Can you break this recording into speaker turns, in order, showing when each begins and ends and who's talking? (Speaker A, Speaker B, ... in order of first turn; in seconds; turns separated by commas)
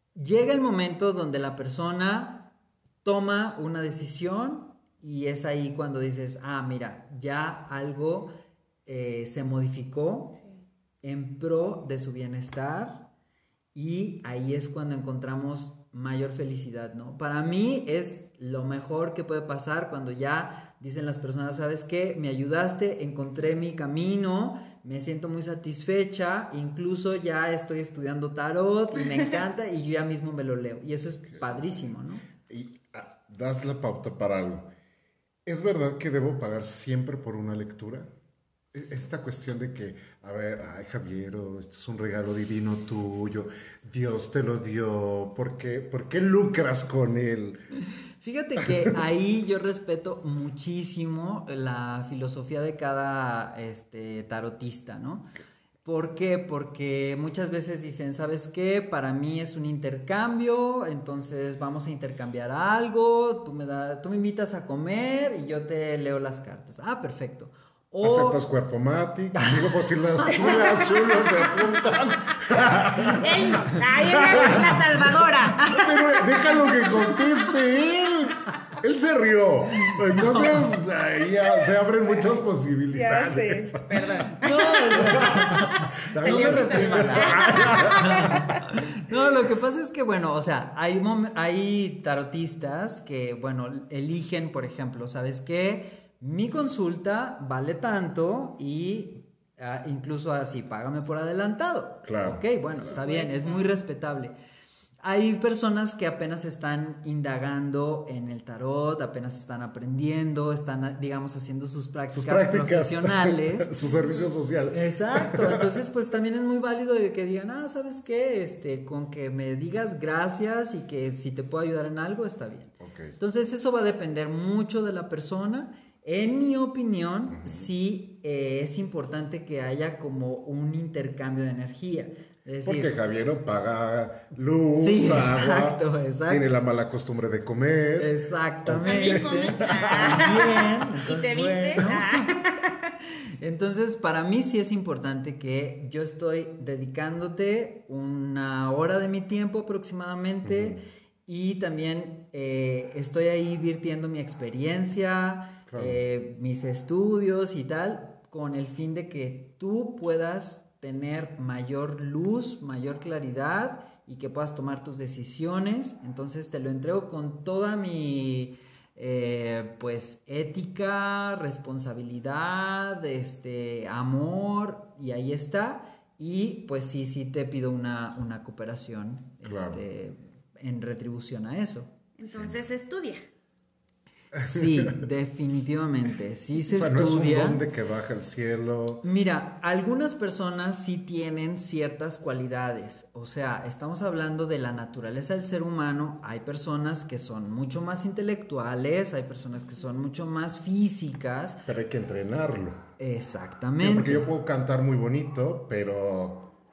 Speaker A: 0.1-8.3, Speaker A: 8.8-10.4, Speaker A: 11.0-13.1, Speaker A: 13.7-32.2, Speaker B: 32.5-34.7, Speaker B: 35.5-38.1, Speaker B: 38.7-47.6, Speaker A: 48.2-55.3, Speaker A: 55.8-68.4, Speaker B: 68.0-84.1, Speaker A: 69.3-69.6, Speaker A: 70.2-70.5, Speaker C: 70.5-70.7, Speaker C: 73.0-77.4, Speaker A: 79.9-80.7, Speaker C: 82.9-88.3, Speaker A: 84.4-104.3, Speaker B: 85.0-89.1, Speaker B: 102.0-102.7, Speaker C: 102.8-103.8, Speaker A: 105.0-113.8, Speaker B: 112.1-115.8, Speaker A: 114.7-132.9, Speaker B: 122.8-123.2, Speaker B: 127.3-127.7, Speaker B: 132.6-140.7, Speaker A: 134.8-136.4, Speaker A: 138.0-142.4, Speaker C: 138.8-142.8, Speaker A: 143.4-181.9, Speaker B: 150.4-150.8, Speaker B: 155.7-156.0, Speaker B: 179.4-179.8, Speaker C: 182.2-183.2, Speaker A: 184.3-187.6, Speaker B: 184.3-185.0, Speaker B: 186.7-189.0, Speaker A: 189.0-201.6, Speaker B: 201.7-202.8, Speaker A: 203.0-204.3, Speaker B: 203.8-206.5